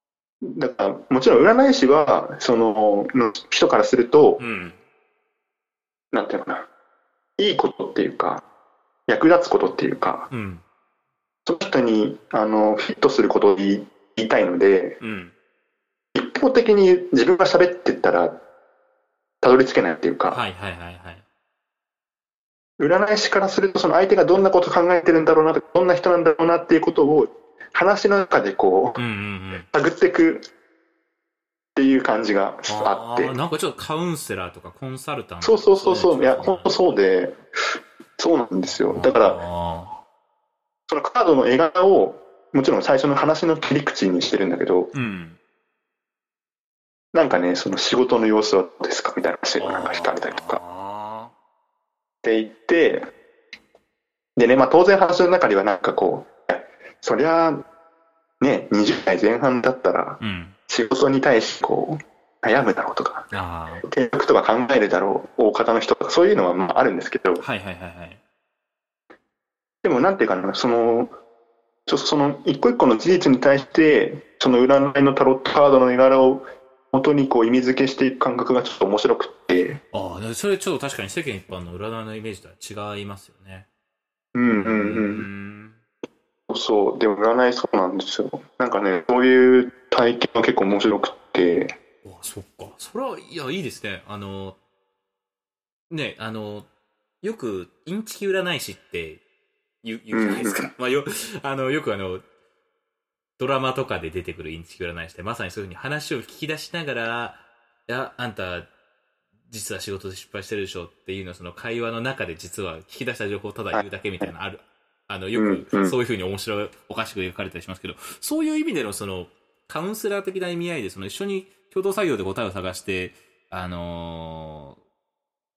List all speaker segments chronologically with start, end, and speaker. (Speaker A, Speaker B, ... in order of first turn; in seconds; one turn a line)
Speaker A: 0.4-4.4
Speaker B: 4.4-4.8
Speaker A: 6.1-6.7
Speaker A: 7.4-8.4
Speaker A: 9.1-10.3
Speaker B: 10.3-10.6
Speaker A: 11.4-15.0
Speaker B: 15.0-15.3
Speaker A: 16.1-18.4
Speaker A: 19.4-20.4
Speaker B: 20.3-21.2
Speaker A: 22.8-29.0
Speaker B: 28.9-29.6
Speaker A: 29.6-30.5
Speaker A: 31.8-33.4
Speaker B: 32.7-36.7
Speaker A: 35.4-39.4
Speaker B: 38.9-40.0
Speaker A: 40.9-44.9
Speaker B: 44.9-45.4
Speaker A: 47.1-50.6
Speaker B: 49.6-51.3
Speaker A: 52.2-53.1
Speaker A: 54.4-57.6
Speaker A: 58.4-63.3
Speaker B: 60.2-60.5
Speaker B: 63.3-63.9
Speaker A: 63.9-67.4
Speaker B: 67.4-68.2
Speaker A: 69.8-71.1
Speaker A: 71.9-79.8
Speaker B: 79.9-83.7
Speaker A: 84.3-85.3
Speaker B: 84.6-85.8
Speaker A: 86.5-91.7
Speaker B: 92.0-94.6
Speaker B: 95.9-96.7
Speaker B: 97.2-99.2
Speaker B: 99.8-102.2
Speaker A: 100.1-100.7
Speaker B: 103.4-108.7
Speaker B: 109.5-124.8
Speaker A: 115.3-116.0